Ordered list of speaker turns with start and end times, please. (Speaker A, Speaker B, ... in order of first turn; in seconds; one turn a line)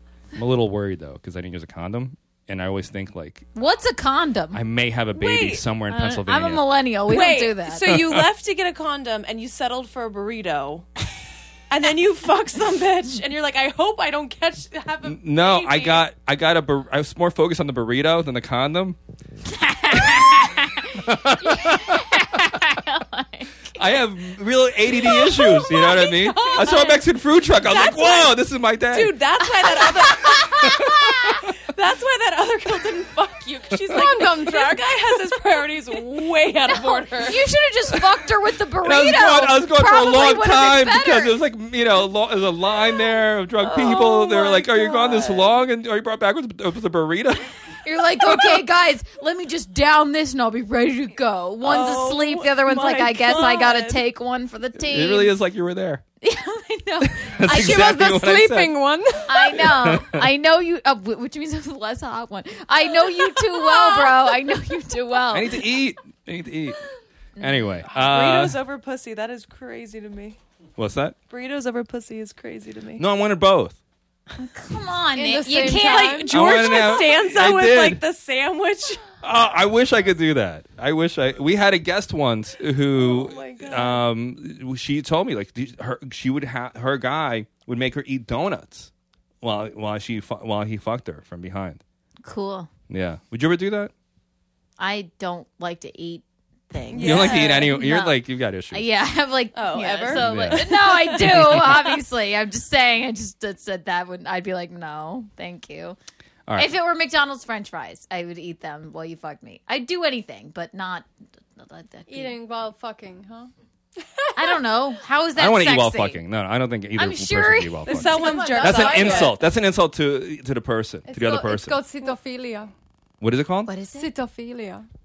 Speaker A: 0.3-3.5
Speaker B: 3.5-4.6
Speaker A: 4.5-6.6
Speaker C: 5.2-5.6
Speaker B: 5.9-7.9
Speaker C: 7.1-10.9
Speaker A: 7.9-8.2
Speaker C: 11.7-16.1
Speaker A: 15.0-19.0
Speaker B: 19.5-23.8
Speaker A: 20.0-22.2
Speaker A: 23.8-29.2
Speaker B: 24.9-27.0
Speaker C: 26.6-26.9
Speaker C: 27.7-28.4
Speaker C: 28.9-30.8
Speaker B: 29.6-31.4
Speaker A: 30.6-30.9
Speaker C: 31.7-37.4
Speaker D: 33.9-35.2
Speaker B: 36.7-41.4
Speaker A: 38.8-47.5
Speaker C: 43.6-45.5
Speaker B: 47.8-55.4
Speaker C: 51.6-54.0
Speaker A: 54.8-56.0
Speaker B: 56.2-57.9
Speaker A: 57.1-58.8
Speaker D: 57.4-59.7
Speaker B: 59.3-65.6
Speaker A: 59.7-60.3
Speaker A: 65.3-66.8
Speaker B: 67.4-67.9
Speaker A: 67.4-68.6
Speaker C: 67.9-70.4
Speaker A: 70.8-71.2
Speaker C: 71.3-73.0
Speaker A: 73.0-73.8
Speaker B: 74.4-76.5
Speaker D: 75.2-76.8
Speaker C: 75.7-79.1
Speaker A: 76.3-78.0
Speaker A: 79.2-88.9
Speaker C: 82.9-84.0
Speaker A: 89.4-91.8
Speaker B: 92.2-92.7
Speaker A: 92.9-93.9
Speaker B: 94.8-106.0
Speaker C: 96.9-97.8
Speaker A: 97.0-98.9
Speaker C: 99.5-101.6
Speaker A: 100.1-101.9
Speaker A: 106.5-106.7
Speaker B: 106.6-112.4
Speaker D: 112.1-113.5
Speaker D: 114.0-114.6
Speaker B: 114.3-116.2
Speaker A: 115.4-121.8
Speaker B: 117.0-118.1
Speaker C: 117.9-119.4
Speaker D: 118.1-119.4
Speaker D: 121.1-122.7
Speaker A: 123.2-123.7
Speaker B: 123.7-124.1
Speaker D: 123.9-124.8